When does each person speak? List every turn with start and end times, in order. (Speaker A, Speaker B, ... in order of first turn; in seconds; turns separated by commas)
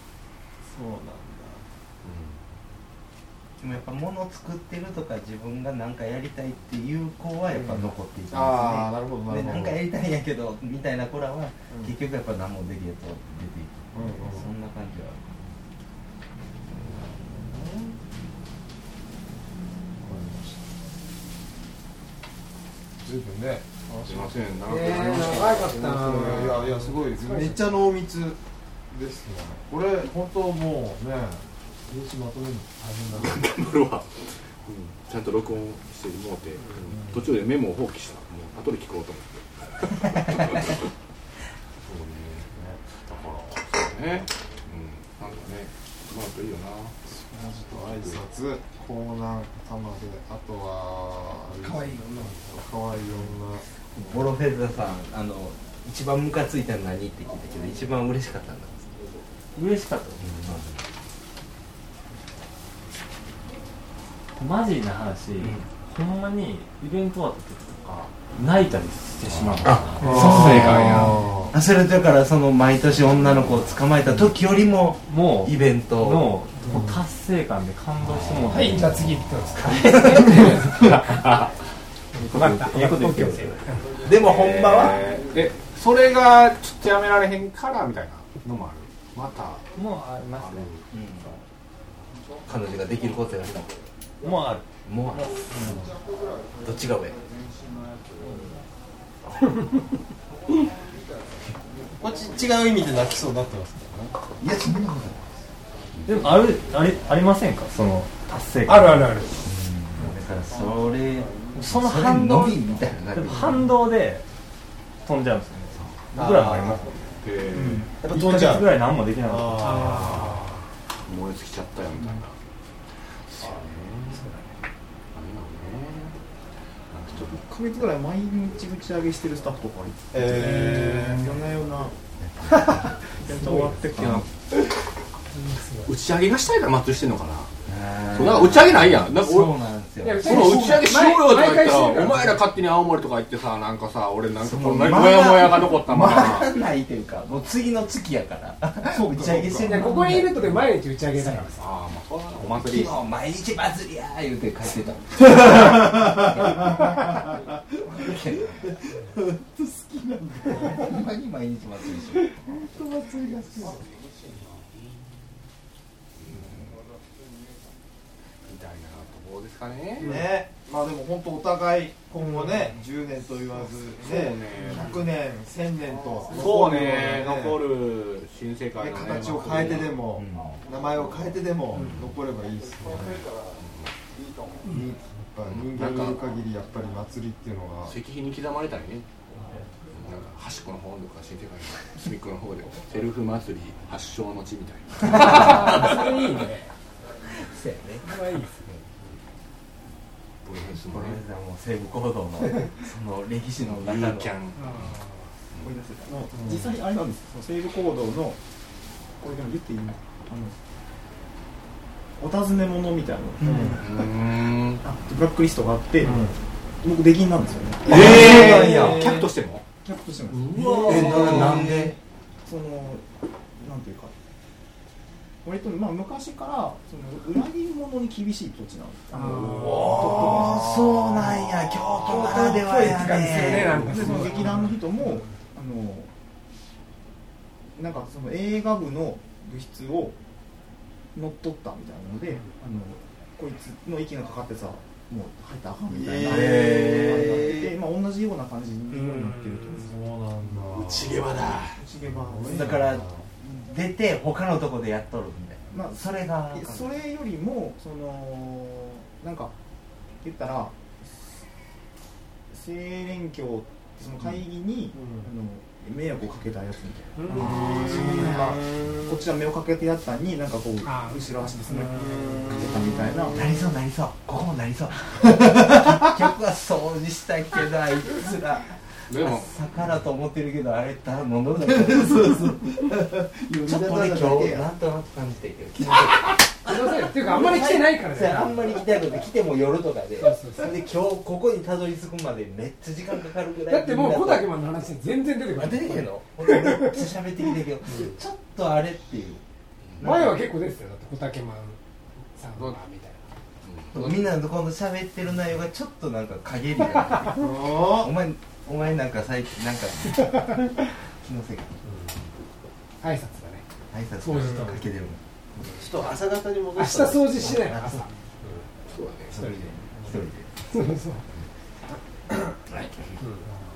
Speaker A: 0.7-1.6, Speaker B: 2.0-2.4, Speaker C: 3.6-15.2, Speaker A: 7.5-9.8, Speaker A: 13.9-14.5, Speaker A: 16.8-18.0, Speaker A: 20.0-20.6, Speaker A: 23.0-24.6, Speaker B: 24.0-26.4, Speaker D: 24.6-27.6, Speaker A: 25.7-28.4, Speaker A: 28.9-33.4, Speaker B: 33.1-34.1, Speaker B: 34.7-40.9, Speaker A: 36.9-37.2, Speaker B: 41.8-46.9, Speaker A: 47.0-53.6, Speaker B: 47.9-48.2, Speaker C: 53.9-58.9, Speaker E: 59.5-60.3, Speaker C: 60.2-60.8, Speaker E: 64.3-70.3, Speaker C: 65.4-65.7, Speaker B: 69.3-71.2, Speaker C: 69.6-76.4, Speaker A: 70.0-71.5, Speaker E: 75.0-79.3, Speaker A: 76.6-77.0, Speaker D: 78.5-81.0, Speaker C: 79.7-80.6, Speaker E: 80.3-81.5, Speaker E: 82.1-83.7, Speaker D: 82.2-83.8, Speaker C: 84.0-85.0, Speaker B: 84.1-89.7, Speaker E: 89.7-90.8, Speaker B: 90.3-90.8, Speaker C: 90.9-91.4, Speaker C: 92.4-93.7, Speaker E: 94.2-95.7, Speaker C: 94.8-96.0, Speaker C: 96.6-97.2, Speaker A: 102.0-104.2, Speaker C: 104.4-105.4, Speaker E: 106.0-109.4, Speaker D: 108.7-109.3, Speaker C: 109.4-113.7, Speaker E: 111.5-114.2, Speaker E: 115.0-117.1, Speaker A: 116.1-116.9, Speaker B: 117.2-117.9, Speaker A: 117.6-120.4, Speaker E: 118.0-120.0, Speaker D: 119.6-120.4, Speaker B: 119.9-120.3, Speaker B: 121.1-122.4, Speaker B: 123.3-124.3, Speaker B: 125.1-126.2, Speaker B: 126.9-127.4, Speaker F: 127.1-131.9, Speaker A: 130.1-131.3, Speaker C: 132.2-132.9, Speaker D: 132.5-133.7, Speaker F: 133.2-134.2, Speaker E: 133.6-134.2, Speaker D: 135.3-135.9, Speaker B: 135.8-137.5, Speaker C: 137.7-140.9, Speaker B: 138.1-139.6, Speaker D: 140.0-142.4, Speaker B: 140.2-146.5, Speaker C: 144.4-151.5, Speaker A: 148.9-149.8, Speaker D: 149.6-151.6, Speaker B: 151.6-153.1, Speaker C: 152.4-158.8, Speaker A: 155.6-156.8, Speaker A: 158.0-161.0, Speaker C: 160.5-162.7, Speaker A: 162.4-163.8, Speaker C: 166.3-166.6, Speaker B: 168.4-170.2, Speaker A: 170.0-177.7, Speaker D: 170.0-170.3, Speaker B: 173.5-174.9, Speaker B: 176.3-180.0, Speaker A: 178.8-183.3, Speaker C: 180.1-180.6, Speaker B: 181.8-182.1, Speaker B: 183.6-183.9, Speaker A: 184.7-187.9, Speaker B: 185.4-186.2, Speaker B: 187.8-189.1, Speaker B: 189.9-195.9, Speaker D: 195.0-196.7, Speaker C: 195.1-195.9, Speaker C: 197.4-198.8, Speaker D: 198.0-198.6, Speaker B: 200.4-201.2, Speaker C: 200.8-204.4, Speaker B: 203.6-205.0, Speaker D: 204.6-205.3, Speaker F: 205.6-208.4, Speaker A: 206.4-206.7, Speaker F: 209.2-210.5, Speaker F: 212.2-214.0, Speaker A: 213.4-213.7, Speaker B: 213.6-214.8, Speaker F: 214.8-216.3, Speaker A: 216.0-216.3, Speaker F: 216.8-219.2, Speaker B: 217.8-219.6, Speaker C: 217.9-219.1, Speaker A: 217.9-219.1, Speaker F: 219.8-221.8, Speaker B: 220.5-221.5, Speaker C: 220.6-222.0, Speaker A: 220.8-221.8, Speaker F: 222.5-223.1, Speaker F: 223.6-224.1, Speaker F: 225.4-231.0, Speaker D: 229.2-230.0, Speaker C: 229.7-234.0, Speaker D: 232.1-235.3, Speaker F: 232.1-236.1, Speaker F: 237.8-240.2, Speaker F: 241.2-250.1, Speaker A: 245.9-247.4, Speaker C: 246.3-247.4, Speaker D: 248.9-249.8, Speaker A: 249.8-251.3, Speaker B: 250.7-251.8, Speaker F: 251.8-252.8, Speaker A: 252.3-253.3, Speaker C: 252.4-256.9, Speaker F: 255.7-259.5, Speaker F: 260.2-260.7, Speaker F: 262.5-273.4, Speaker A: 264.9-265.2, Speaker D: 267.2-267.5, Speaker A: 267.3-269.2, Speaker C: 267.4-268.7, Speaker D: 270.9-271.2, Speaker A: 271.8-273.5, Speaker C: 273.3-282.6, Speaker A: 275.2-276.1, Speaker B: 279.1-279.5, Speaker A: 281.6-284.7, Speaker C: 283.6-294.6, Speaker D: 286.4-288.8, Speaker D: 290.2-290.8, Speaker D: 293.7-297.0, Speaker C: 295.5-299.4, Speaker C: 300.0-300.4, Speaker D: 300.0-301.8, Speaker D: 302.4-303.3, Speaker B: 303.6-304.3, Speaker C: 303.9-311.8, Speaker A: 307.4-308.1, Speaker D: 313.0-313.6, Speaker C: 313.9-315.2, Speaker D: 314.2-314.9, Speaker A: 315.8-318.1, Speaker D: 316.8-318.6, Speaker B: 318.9-319.4, Speaker C: 319.3-320.8, Speaker D: 319.3-319.7, Speaker D: 320.7-321.2, Speaker C: 322.7-323.0, Speaker D: 323.2-323.5